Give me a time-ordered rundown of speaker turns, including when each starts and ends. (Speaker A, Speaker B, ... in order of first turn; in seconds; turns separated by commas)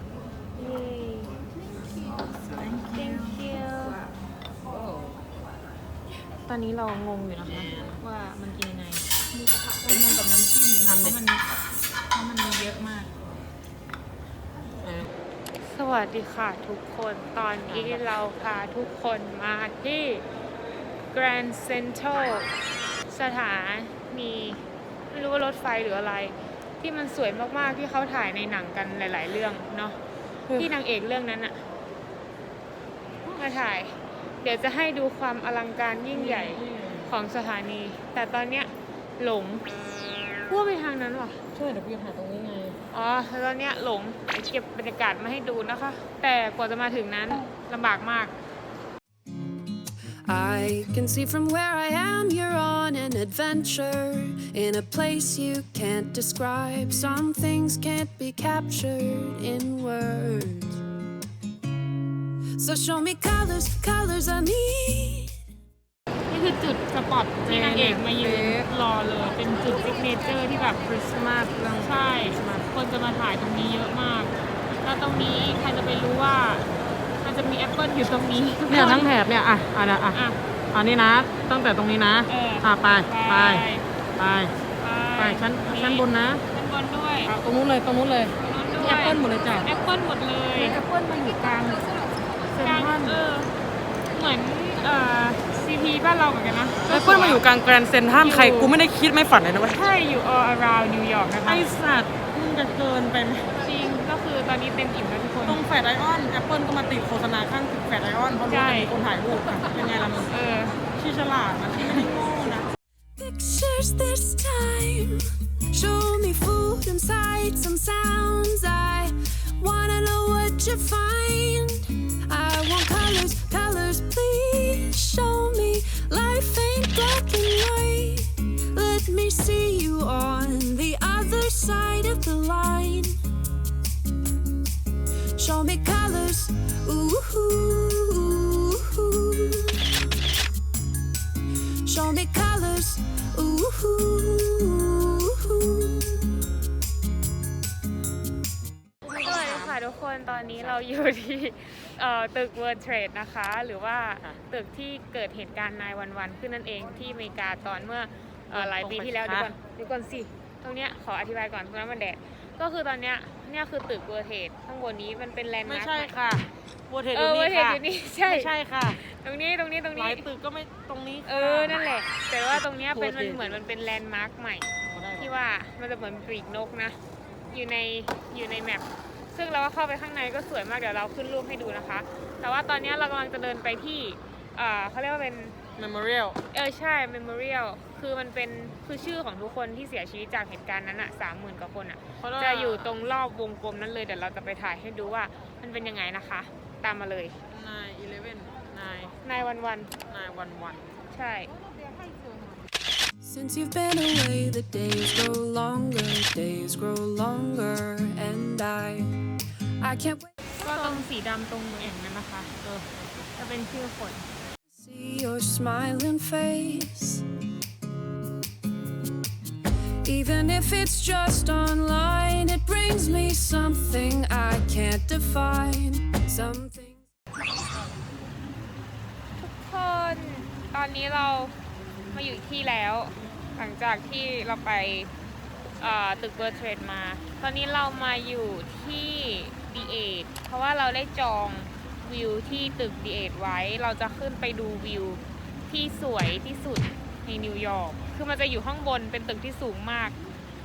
Speaker A: 0.6-1.4, Speaker B: 2.6-3.4, Speaker A: 2.9-4.0, Speaker A: 6.4-11.5, Speaker B: 7.5-8.0, Speaker B: 10.8-11.2, Speaker A: 12.1-13.1, Speaker B: 14.8-15.1, Speaker A: 15.6-20.2, Speaker B: 17.7-18.1, Speaker A: 21.1-22.5, Speaker A: 23.1-30.0, Speaker B: 30.5-30.7, Speaker A: 30.5-31.6, Speaker A: 33.3-39.6, Speaker B: 36.1-37.1, Speaker A: 40.5-41.4, Speaker B: 41.5-42.8, Speaker A: 42.9-48.3, Speaker C: 50.2-60.8, Speaker C: 62.6-65.4, Speaker A: 66.3-70.8, Speaker B: 67.4-68.7, Speaker B: 70.8-72.7, Speaker A: 71.8-76.7, Speaker A: 77.2-79.1, Speaker B: 78.7-80.2, Speaker A: 80.1-80.4, Speaker B: 80.7-83.7, Speaker A: 82.3-83.8, Speaker B: 84.2-84.5, Speaker A: 84.8-87.3, Speaker B: 85.2-86.4, Speaker B: 87.2-89.7, Speaker A: 88.4-90.8, Speaker B: 90.5-92.0, Speaker B: 92.5-93.2, Speaker A: 92.6-93.5, Speaker A: 94.1-97.4, Speaker B: 96.8-99.8, Speaker A: 98.1-98.7, Speaker A: 99.7-101.7, Speaker B: 101.5-103.6, Speaker A: 103.6-105.6, Speaker B: 105.5-110.3, Speaker A: 108.5-109.0, Speaker A: 110.2-110.8, Speaker B: 111.0-112.7, Speaker C: 113.2-133.2, Speaker C: 135.3-140.0, Speaker C: 141.8-146.4, Speaker B: 149.1-149.8, Speaker A: 149.2-166.1, Speaker B: 158.5-159.5, Speaker B: 165.6-169.0, Speaker A: 167.1-170.3, Speaker B: 169.9-171.8, Speaker A: 171.2-177.0, Speaker B: 172.5-173.6, Speaker B: 174.9-175.3, Speaker A: 177.5-185.6, Speaker B: 185.8-186.4, Speaker A: 186.5-197.3, Speaker B: 192.2-193.0, Speaker B: 197.5-199.1, Speaker A: 199.2-199.9, Speaker B: 200.1-200.9, Speaker A: 201.1-201.5, Speaker C: 203.2-209.2, Speaker C: 209.8-210.3, Speaker A: 210.6-212.0, Speaker B: 210.6-211.1, Speaker B: 211.8-213.0, Speaker A: 213.4-214.3, Speaker C: 214.7-217.2, Speaker C: 220.0-227.1, Speaker A: 229.4-231.5, Speaker A: 232.1-235.1, Speaker A: 235.8-250.1